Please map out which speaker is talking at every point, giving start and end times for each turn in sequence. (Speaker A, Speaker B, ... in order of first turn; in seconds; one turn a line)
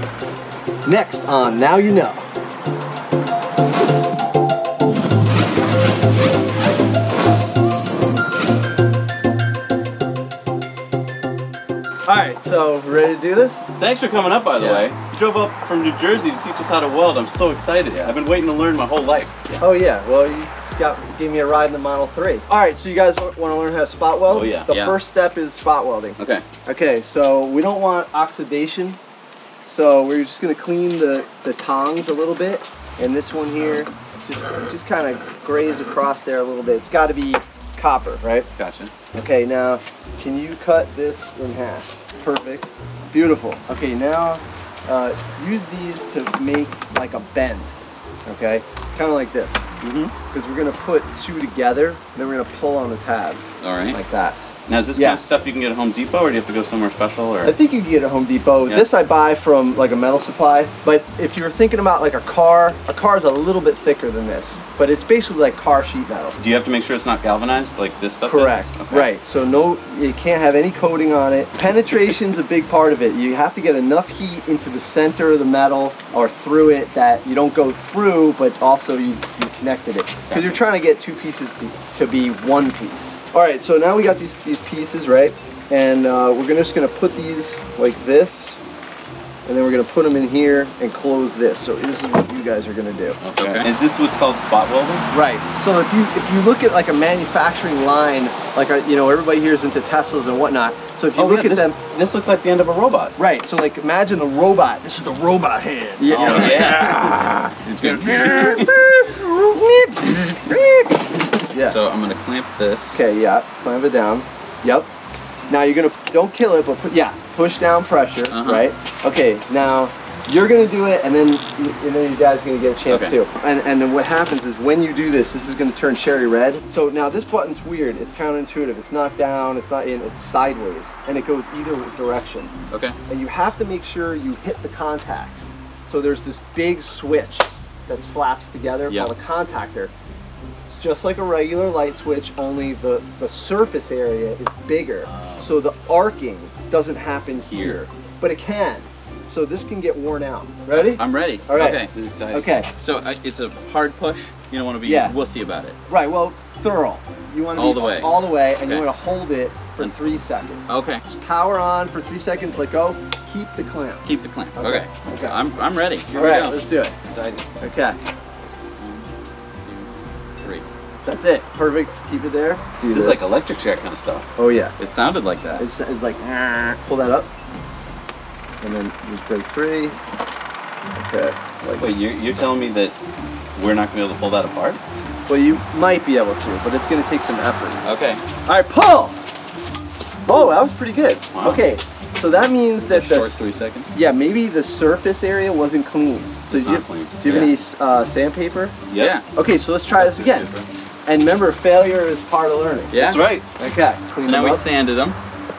Speaker A: 0.8-2.2
Speaker A: 12.1-13.7
Speaker B: 13.8-19.5
Speaker A: 14.6-14.8
Speaker A: 19.6-29.0
Speaker B: 24.3-24.6
Speaker C: 24.3-24.9
Speaker C: 26.2-26.4
Speaker A: 29.6-38.5
Speaker B: 38.6-38.9
Speaker A: 39.1-47.7
Speaker A: 48.2-54.4
Speaker B: 49.8-50.1
Speaker C: 53.6-54.0
Speaker B: 54.7-57.5
Speaker A: 54.9-55.2
Speaker A: 57.4-66.4
Speaker B: 66.4-69.1
Speaker A: 68.2-88.6
Speaker A: 89.5-93.2
Speaker C: 93.2-93.7
Speaker B: 93.3-95.1
Speaker A: 95.1-101.8
Speaker B: 101.2-103.2
Speaker C: 101.2-101.6
Speaker A: 103.2-111.8
Speaker B: 106.0-106.9
Speaker C: 106.1-107.1
Speaker B: 107.7-108.6
Speaker C: 107.7-108.6
Speaker C: 111.6-113.0
Speaker A: 112.9-114.9
Speaker A: 115.5-132.5
Speaker C: 118.3-118.7
Speaker C: 122.9-123.2
Speaker C: 132.7-133.0
Speaker A: 133.1-139.9
Speaker A: 140.7-152.7
Speaker C: 147.5-147.8
Speaker C: 150.7-155.8
Speaker A: 154.8-155.1
Speaker A: 155.9-165.4
Speaker C: 157.6-158.8
Speaker C: 160.7-161.0
Speaker C: 164.0-166.6
Speaker A: 166.1-168.0
Speaker C: 168.8-169.9
Speaker A: 171.0-173.2
Speaker B: 172.9-174.3
Speaker A: 174.3-174.7
Speaker C: 174.8-175.7
Speaker A: 175.6-177.3
Speaker A: 178.6-180.0
Speaker A: 180.9-181.9
Speaker B: 181.8-183.0
Speaker B: 183.5-184.8
Speaker A: 185.3-187.8
Speaker C: 187.8-188.2
Speaker A: 188.4-189.2
Speaker A: 190.2-193.4
Speaker C: 192.8-193.9
Speaker A: 193.9-198.8
Speaker C: 196.5-197.5
Speaker B: 198.9-199.1
Speaker C: 198.9-199.3
Speaker A: 199.3-200.4
Speaker B: 199.9-200.7
Speaker A: 201.1-202.9
Speaker C: 202.9-203.2
Speaker B: 203.0-203.4
Speaker A: 203.6-204.7
Speaker C: 204.2-205.2